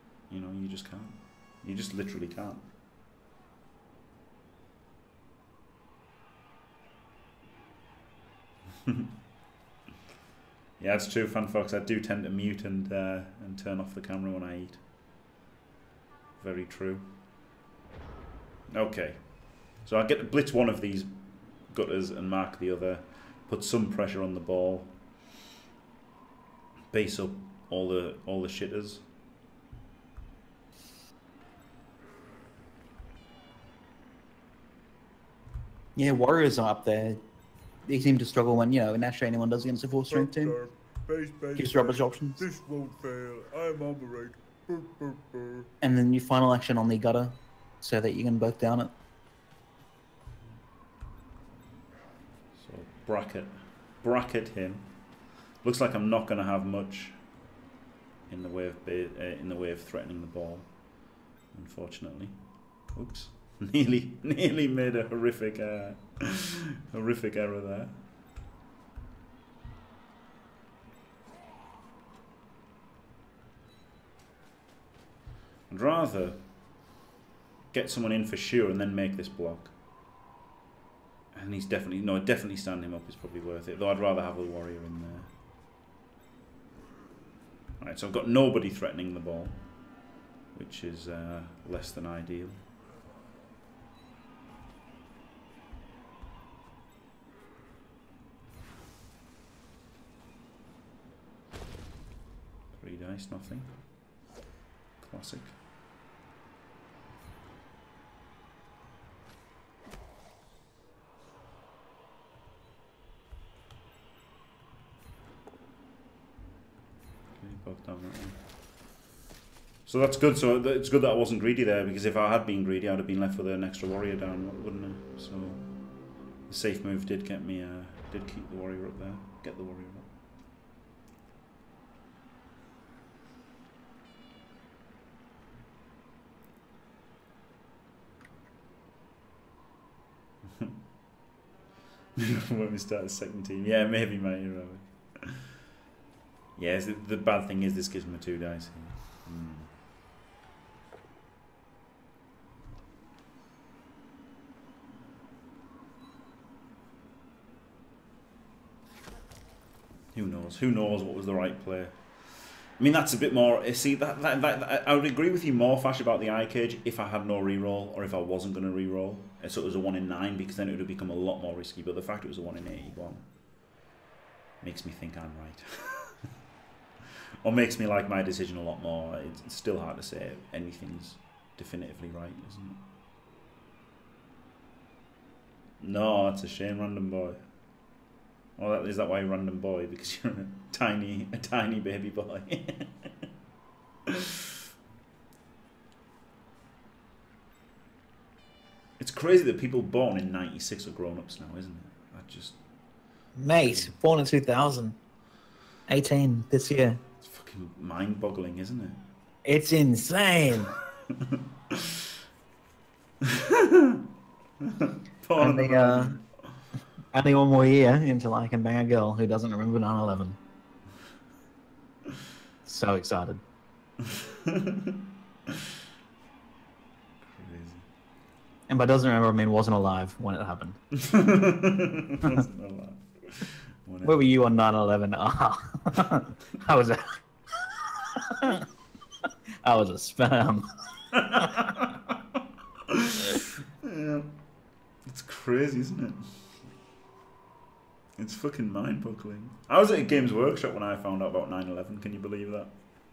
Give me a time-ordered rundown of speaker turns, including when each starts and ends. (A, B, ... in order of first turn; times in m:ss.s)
0:00.3-0:02.6 A
0:10.8-0:14.8 A
0:16.4-0:17.1 A
0:18.7-0:25.0 A
0:26.9-0:29.0 A
0:35.9-0:37.2 B
0:37.8-0:40.6 B
0:40.1-0:45.7 C
0:41.6-0:42.4 B
0:45.8-0:48.9 B
0:52.6-0:54.9 A
0:55.6-0:57.2 A
0:58.3-1:07.9 A
1:15.7-1:16.4 A
1:17.7-1:19.7 A
1:21.3-1:25.3 A
1:27.8-1:30.0 A
1:30.5-1:32.6 A
1:42.7-1:43.7 A
1:45.0-1:45.5 A
1:57.4-1:58.4 A
1:59.8-2:10.1 A
2:22.2-2:25.3 A
2:26.6-2:29.7 A
2:40.1-2:53.3 A
2:54.6-2:56.1 A
2:57.4-3:02.8 A
3:05.8-3:07.4 A
3:08.6-3:13.1 A
3:14.1-3:14.4 A
3:19.0-3:22.6 A
3:23.4-3:25.0 B
3:23.6-3:23.9 A
3:25.9-3:27.0 B
3:27.2-3:29.0 A
3:29.4-3:30.7 B
3:31.1-3:32.0 A
3:33.2-3:34.0 A
3:34.6-3:36.2 A
3:35.4-3:36.2 B
3:37.1-3:40.4 B
3:42.6-3:43.4 B
3:44.1-3:44.9 A
3:47.2-3:47.8 A
3:48.7-3:50.8 B
3:50.9-3:54.2 A
3:54.0-3:58.7 B
3:59.6-4:00.6 B
4:01.1-4:02.2 A
4:02.9-4:04.3 A
4:05.0-4:06.2 A
4:08.2-4:12.7 A